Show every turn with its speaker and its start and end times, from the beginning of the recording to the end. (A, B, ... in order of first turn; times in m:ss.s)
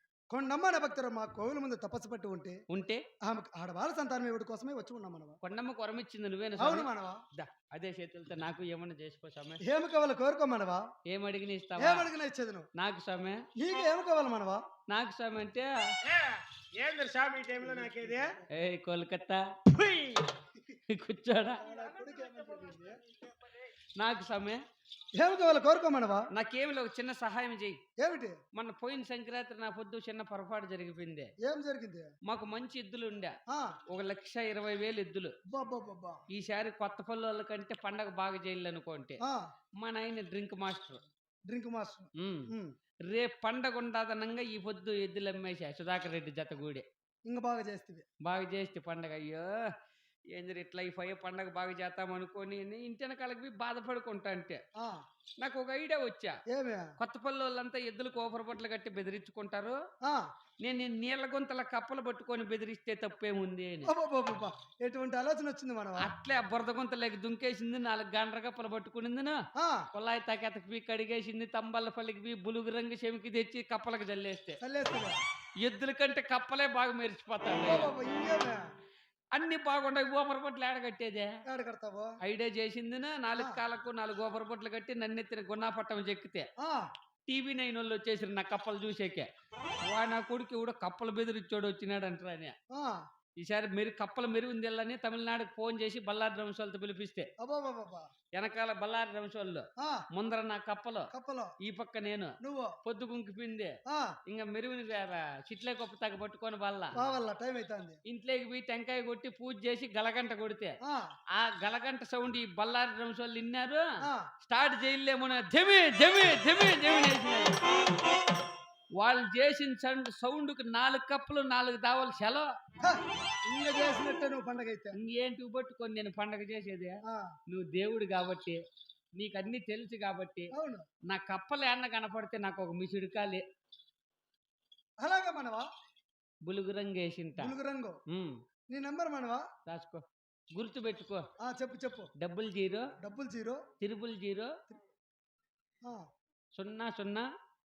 0:00.3-0:02.6 A
0:02.7-0:03.0 B
0:03.2-0:05.4 A
0:05.4-0:09.6 B
0:06.6-0:07.2 A
0:09.6-0:10.9 A
0:11.1-0:12.1 B
0:11.8-0:12.7 A
0:12.8-0:13.4 B
0:13.6-0:14.6 A
0:14.9-0:15.9 B
0:16.0-0:18.4 C
0:17.6-0:18.4 A
0:18.5-0:19.5 B
0:19.7-0:20.3 C
0:20.9-0:21.6 B
0:21.6-0:23.0 A
0:24.0-0:24.6 B
0:25.2-0:26.3 A
0:26.3-0:27.8 B
0:28.0-0:28.4 A
0:28.5-0:31.3 B
0:31.4-0:32.1 A
0:32.2-0:33.4 B
0:33.5-0:33.8 A
0:33.9-0:35.3 B
0:35.5-0:36.2 A
0:36.3-0:39.2 B
0:39.2-0:39.5 A
0:39.8-0:41.0 B
0:41.5-0:42.8 A
0:42.2-0:42.5 B
0:43.0-0:46.8 B
0:47.3-0:48.0 A
0:48.2-0:49.7 B
0:50.3-0:54.6 B
0:54.8-0:55.0 A
0:55.4-0:56.4 B
0:56.5-0:56.9 A
0:57.0-0:59.8 B
1:00.0-1:00.3 A
1:00.6-1:03.9 B
1:03.8-1:06.1 A
1:06.0-1:09.4 B
1:09.6-1:09.9 A
1:09.9-1:14.6 B
1:14.6-1:15.2 A
1:15.6-1:17.9 B
1:17.6-1:18.6 A
1:19.3-1:21.4 B
1:21.4-1:22.2 A
1:22.2-1:26.5 B
1:26.6-1:26.9 A
1:27.3-1:29.3 B
1:29.8-1:32.6 B
1:32.7-1:33.0 A
1:33.4-1:37.3 B
1:37.4-1:38.1 A
1:38.3-1:47.0 B
1:39.8-1:40.0 A
1:41.1-1:41.5 A
1:42.4-1:42.8 A
1:43.9-1:44.2 A
1:46.9-1:48.0 A
1:48.1-1:50.8 B
1:50.8-1:51.1 A
1:51.3-1:53.8 B
1:54.0-1:54.3 A
1:54.4-1:57.6 B
1:59.0-2:02.5 B
2:02.8-2:05.0 A
2:05.0-2:08.6 B
2:07.0-2:07.4 A
2:09.2-2:10.5 B
2:10.5-2:10.9 A
2:11.1-2:13.4 B
2:15.0-2:15.7 A
2:16.4-2:17.6 B
2:17.4-2:18.0 A
2:18.1-2:18.4 B
2:18.7-2:19.5 A
2:19.7-2:21.2 B
2:21.4-2:22.1 A
2:22.2-2:22.9 B
2:23.0-2:23.6 A
2:23.8-2:24.5 B
2:26.5-2:27.3 B